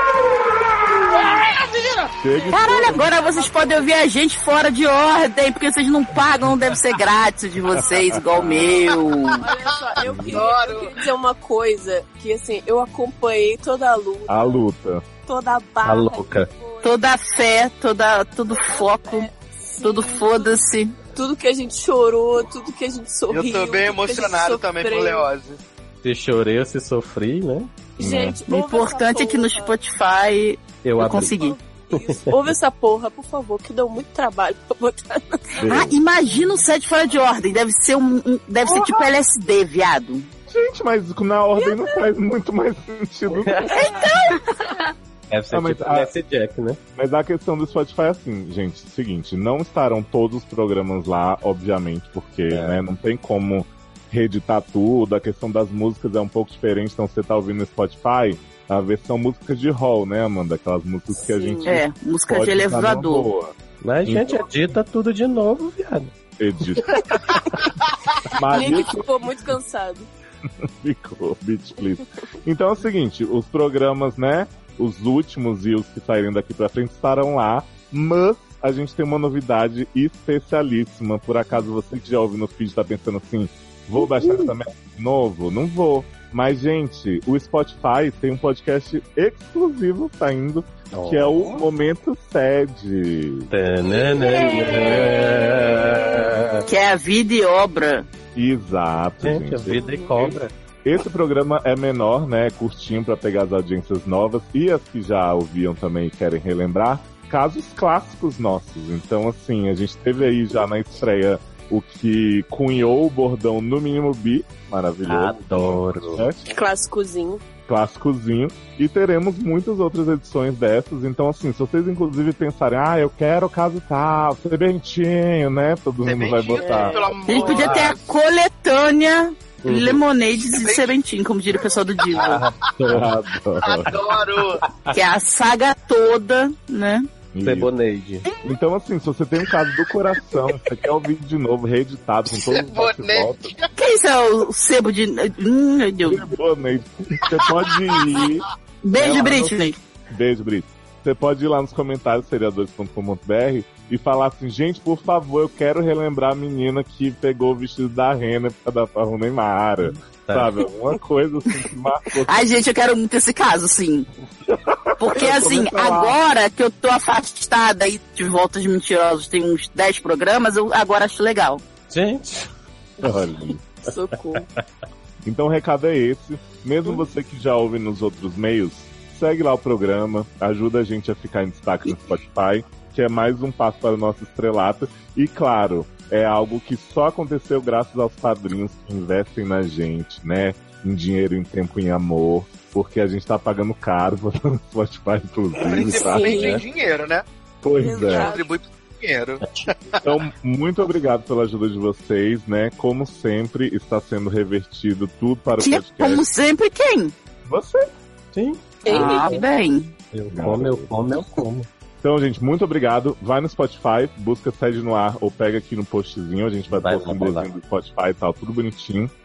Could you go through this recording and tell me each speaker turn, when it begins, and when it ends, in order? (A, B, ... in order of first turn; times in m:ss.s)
0:01.3-0:02.1 A
0:02.2-0:03.0 B
0:02.3-0:04.0 C
0:02.5-0:09.4 D
0:07.9-0:08.6 B
0:08.7-0:09.1 A
0:09.4-0:14.6 C
0:10.2-0:10.9 A
0:14.3-0:15.0 B
0:15.2-0:17.0 C
0:15.8-0:16.5 E
0:16.8-0:19.3 D
0:18.4-0:25.3 C
0:19.8-0:21.0 D
0:23.3-0:25.6 A
0:26.0-0:27.8 E
0:28.0-0:29.8 C
0:28.0-0:28.4 B
0:28.5-0:31.6 D
0:30.8-0:31.4 E
0:31.1-0:35.7 C
0:31.9-0:32.3 E
0:35.6-0:40.3 D
0:35.6-0:35.9 E
0:38.6-0:39.0 B
0:40.5-0:43.6 B
0:41.6-0:42.0 C
0:43.3-0:43.7 E
0:43.7-0:44.5 D
0:45.3-0:46.8 E
0:45.5-0:46.1 B
0:47.0-1:04.5 B
0:52.5-0:52.8 E
1:01.1-1:01.8 C
1:01.6-1:03.3 D
1:03.8-1:06.1 E
1:06.4-1:07.2 B
1:08.3-1:09.1 B
1:08.5-1:10.1 C
1:10.8-1:33.5 B
1:30.9-1:31.7 E
1:33.5-1:36.7 E
1:34.2-1:35.0 C
1:36.7-1:38.1 D
1:38.4-1:56.4 B
1:39.2-1:40.5 E
1:39.8-1:40.2 C
1:55.1-1:56.3 E
1:56.5-1:57.4 C
1:57.7-2:07.0 B
2:06.0-2:08.0 A
2:06.5-2:07.9 C
2:07.3-2:12.4 D
2:09.6-2:10.0 E
2:10.5-2:10.9 A
2:11.7-2:12.5 A
2:12.3-2:13.1 E
2:12.9-2:14.0 B
2:13.6-2:14.6 A
2:14.6-2:14.9 E
2:14.9-2:17.0 D
2:17.3-2:17.7 B
2:17.4-2:18.3 E
2:18.4-2:23.5 B
2:22.3-2:23.7 A
2:23.8-2:26.2 D
2:26.0-2:42.4 B
2:27.3-2:28.3 A
2:28.8-2:29.8 D
2:40.2-2:40.6 E
2:42.3-2:44.1 D
2:44.5-2:46.2 B
2:45.0-2:51.6 D
2:51.9-2:52.5 E
2:53.0-2:53.6 B
2:53.8-2:54.5 C
2:54.3-2:54.6 E
2:55.2-3:16.5 B
3:15.6-3:17.2 A
3:16.0-3:16.6 C
3:17.6-3:18.3 B
3:17.8-3:18.5 C
3:18.0-3:20.0 A
3:20.0-3:26.2 B
3:25.6-3:27.2 D
3:27.4-3:27.9 B
3:28.3-3:29.3 E
3:28.9-3:29.4 C
3:28.9-3:29.9 D
3:30.1-3:31.7 E
3:30.3-3:30.9 B
3:32.0-3:39.1 B
3:36.7-3:37.5 E